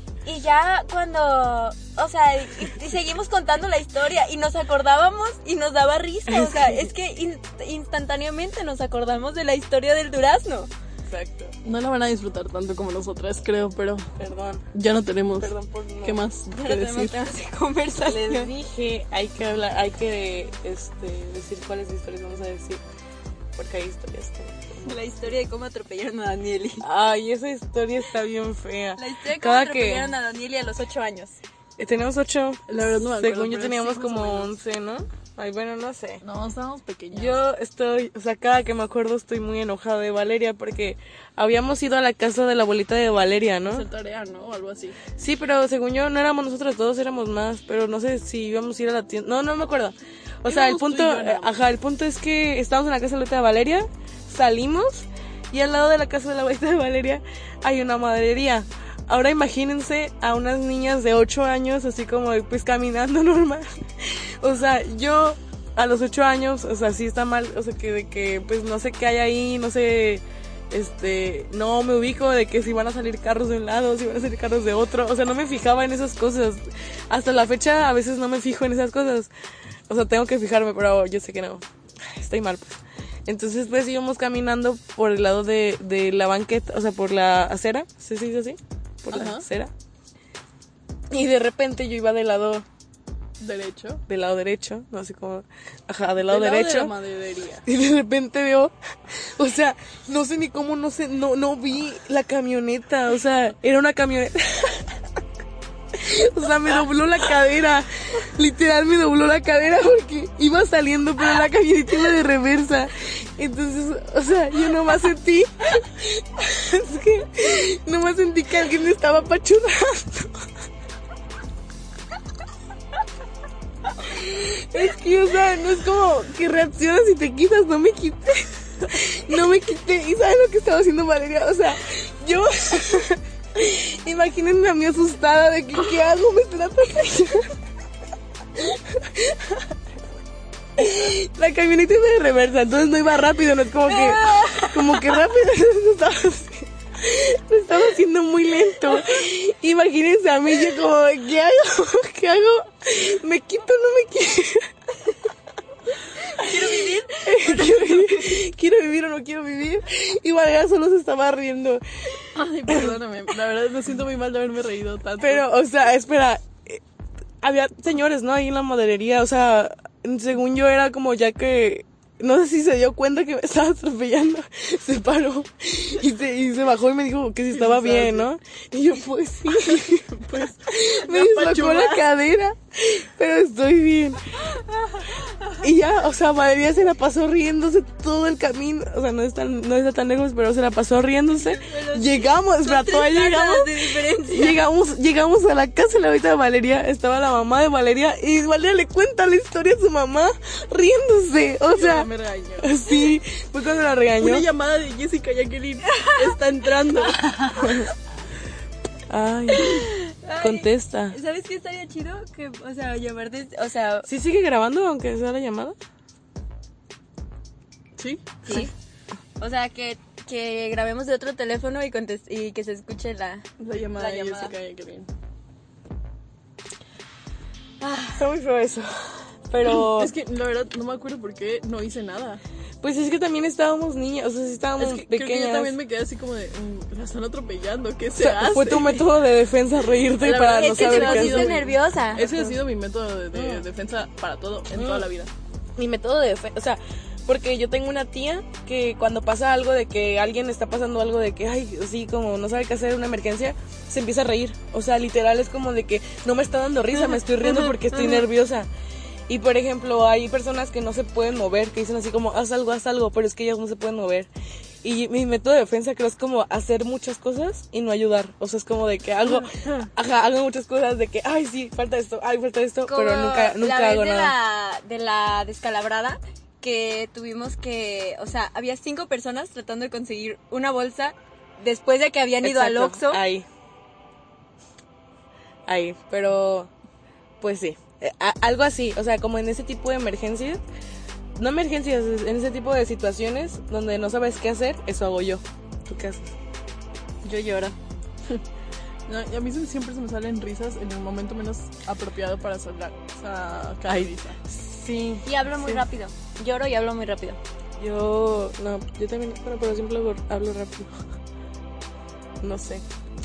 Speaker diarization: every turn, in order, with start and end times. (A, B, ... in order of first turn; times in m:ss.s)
0:00.2-0:10.7 A
0:06.3-0:06.8 B
0:11.1-0:11.5 B
0:11.6-0:14.1 C
0:14.2-0:14.7 B
0:14.7-0:17.2 C
0:15.3-0:16.2 B
0:16.5-0:18.5 A
0:18.0-0:22.8 B
0:23.5-0:24.9 B
0:24.8-0:26.8 A
0:26.8-0:30.1 B
0:29.0-0:31.4 A
0:31.8-0:36.2 B
0:32.7-0:34.5 C
0:36.2-0:37.4 C
0:37.1-0:43.8 B
0:43.7-0:45.0 C
0:45.2-1:19.3 B
0:50.4-0:51.6 C
1:19.9-1:29.7 B
1:29.1-1:29.4 C
1:31.1-1:32.6 B
1:33.4-1:34.0 C
1:34.1-1:36.9 B
1:36.2-1:37.6 C
1:37.6-1:44.9 B
1:45.9-2:00.4 B
2:04.0-2:17.5 B
2:18.7-2:19.3 B
2:20.8-2:34.7 B
2:23.9-2:25.1 A
2:36.2-2:38.1 A
2:37.2-2:41.8 B
2:42.3-2:45.4 C
2:42.7-2:42.9 B
2:45.2-2:46.8 B
2:47.4-3:04.3 B
2:57.5-2:58.3 C
3:00.1-3:02.0 C
3:05.5-3:22.1 B
3:11.4-3:14.6 A
3:21.7-3:22.9 C
3:22.6-3:24.5 B
3:24.2-3:27.3 C
3:25.9-3:26.3 A
3:27.2-3:27.7 A
3:27.6-3:27.9 B
3:29.1-3:31.2 B
3:29.5-3:34.1 A
3:34.1-3:35.7 B
3:38.0-3:38.7 C
3:38.4-3:38.7 A
3:39.4-3:44.5 A
3:43.6-3:45.1 C
3:47.8-3:48.2 A
3:48.2-3:50.1 B
3:49.6-3:52.4 C
3:52.8-3:55.8 B
3:54.8-3:59.1 C
3:58.1-4:01.6 B
4:00.2-4:05.3 C
4:00.5-4:02.3 A
4:02.2-4:02.6 B
4:03.3-4:03.6 B
4:04.7-4:05.1 B
4:05.8-4:18.7 B
4:17.9-4:18.2 A
4:19.3-4:24.3 B
4:24.8-4:34.3 B
4:32.9-4:43.2 A
4:42.4-4:43.4 B
4:45.7-4:46.7 B
4:47.4-4:50.6 B
4:51.4-4:56.3 B
4:57.2-4:57.7 C
4:57.3-4:57.5 A
4:59.1-5:04.4 C
5:03.9-5:05.8 B
5:05.2-5:07.4 A
5:07.8-5:10.9 B
5:12.4-5:12.8 B